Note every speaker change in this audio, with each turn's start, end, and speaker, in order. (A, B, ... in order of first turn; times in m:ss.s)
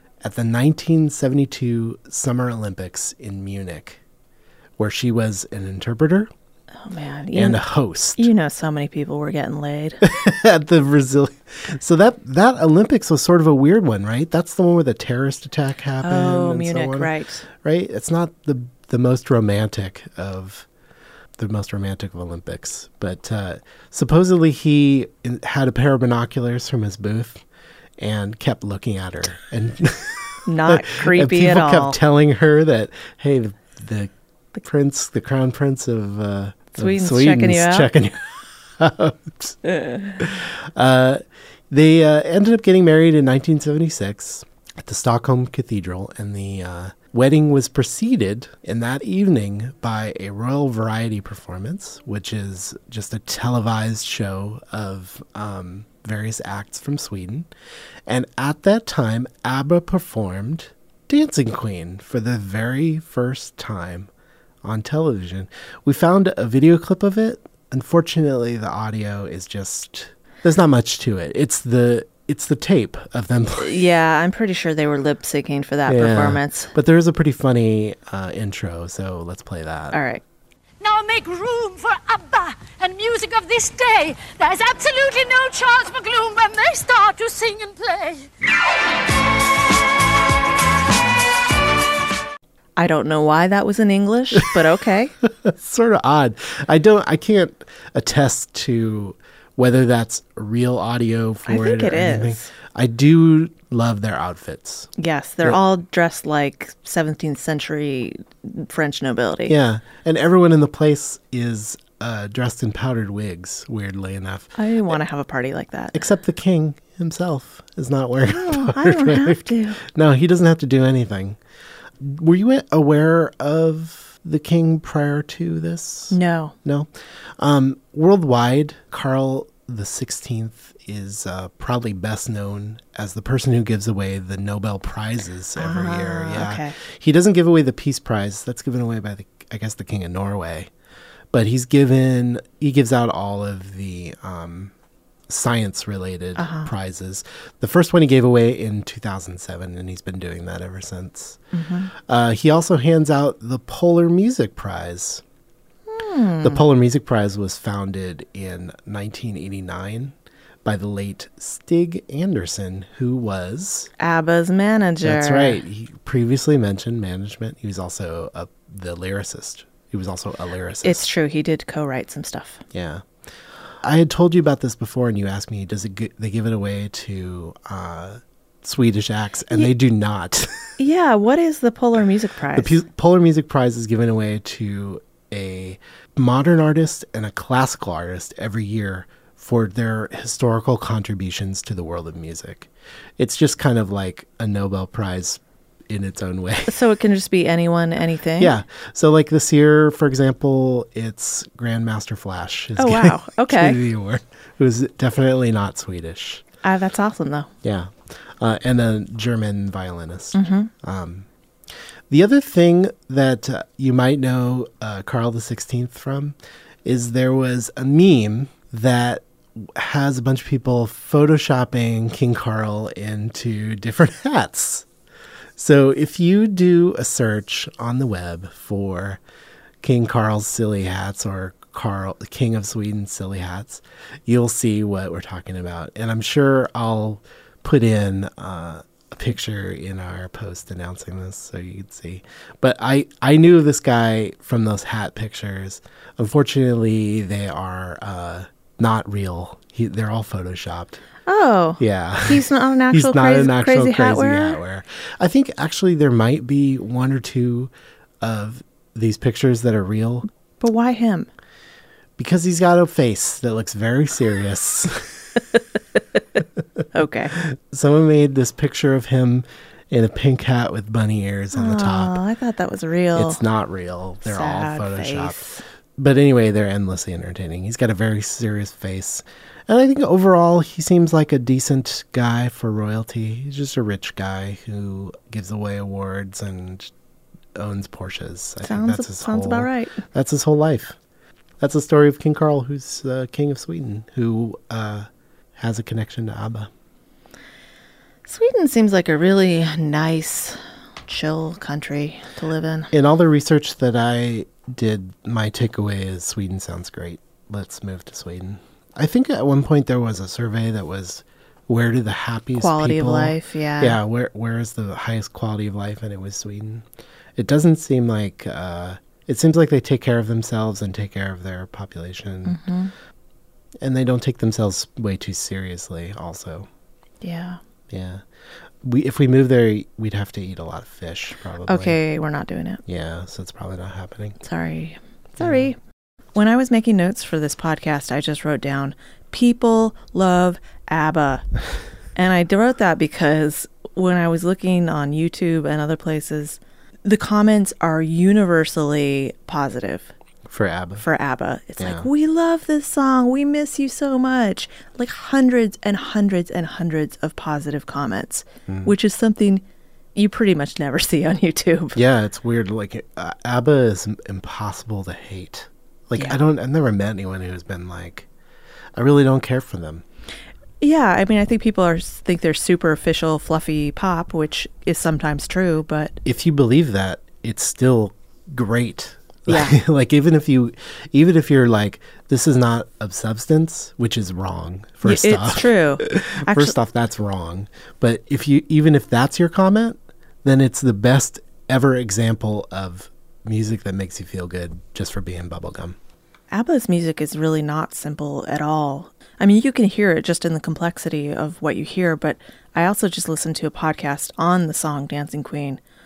0:00.2-0:04.0 A
0:04.8-0:06.3 A
0:06.8-0:07.6 B
0:07.3-0:08.3 A
0:08.2-0:10.0 B
0:10.0-0:20.6 A
0:16.0-0:17.4 B
0:21.4-0:27.4 A
0:28.0-0:39.6 A
0:30.4-0:32.0 B
0:36.7-0:37.9 B
0:39.7-0:40.1 B
0:40.2-0:57.5 A
0:58.1-1:04.1 A
1:04.6-1:13.8 A
1:13.6-1:16.7 B
1:15.9-1:20.0 A
1:19.9-1:20.2 B
1:20.8-1:28.3 C
1:32.8-1:35.1 B
1:35.3-1:44.9 A
1:41.4-1:42.5 B
1:45.0-1:49.5 B
1:49.5-1:54.6 A
1:54.6-1:56.0 B
1:55.9-2:01.4 A
1:58.3-1:59.8 B
2:02.0-2:20.7 A
2:06.1-2:06.5 B
2:15.6-2:16.7 B
2:21.3-2:24.7 A
2:25.3-2:31.4 A
2:26.4-2:26.7 B
2:31.5-2:31.9 B
2:32.0-2:35.2 A
2:35.9-2:36.6 B
2:36.4-2:43.9 A
2:44.0-2:45.6 B
2:45.0-2:51.0 A
2:50.8-2:52.6 B
2:52.7-2:53.0 A
2:53.8-3:00.7 A
3:00.8-3:02.8 B
3:02.5-3:16.8 A
3:16.6-3:18.6 B
3:18.4-3:26.4 A
3:22.8-3:23.8 B
3:26.6-3:27.5 B
3:27.6-3:31.3 A
3:30.3-3:30.7 B
3:32.1-3:44.9 A
3:45.6-3:49.2 A
3:49.8-4:11.0 A
4:11.2-4:14.6 B
4:11.8-4:20.3 A
4:20.6-4:21.3 B
4:22.2-4:25.4 A
4:26.9-4:27.4 B
4:27.3-4:32.2 A
4:31.5-4:33.4 B
4:33.1-4:46.9 A
4:34.2-4:35.6 B
4:47.5-4:51.0 A
4:48.6-4:50.0 B
4:51.6-4:56.7 A
4:58.3-5:02.9 B
5:02.9-5:16.8 A
5:12.6-5:14.0 B
5:17.4-5:22.6 A
5:22.4-5:22.9 B
5:23.8-5:26.7 A
5:27.2-5:27.6 B
5:27.9-5:28.2 A
5:28.8-5:32.0 A
5:31.6-5:32.8 B
5:32.8-5:34.4 A
5:34.4-5:35.8 B
5:35.4-5:35.7 A
5:36.3-5:41.4 B
5:42.2-5:50.1 B
5:50.5-5:51.0 A
5:51.0-5:59.6 B
5:51.8-5:52.1 A
5:58.7-5:58.9 A
6:00.1-6:02.0 B
6:01.9-6:08.3 A
6:09.0-6:10.0 A
6:10.8-6:16.2 B
6:16.2-6:36.0 A
6:19.5-6:19.8 B
6:25.0-6:26.7 B
6:36.5-6:45.8 B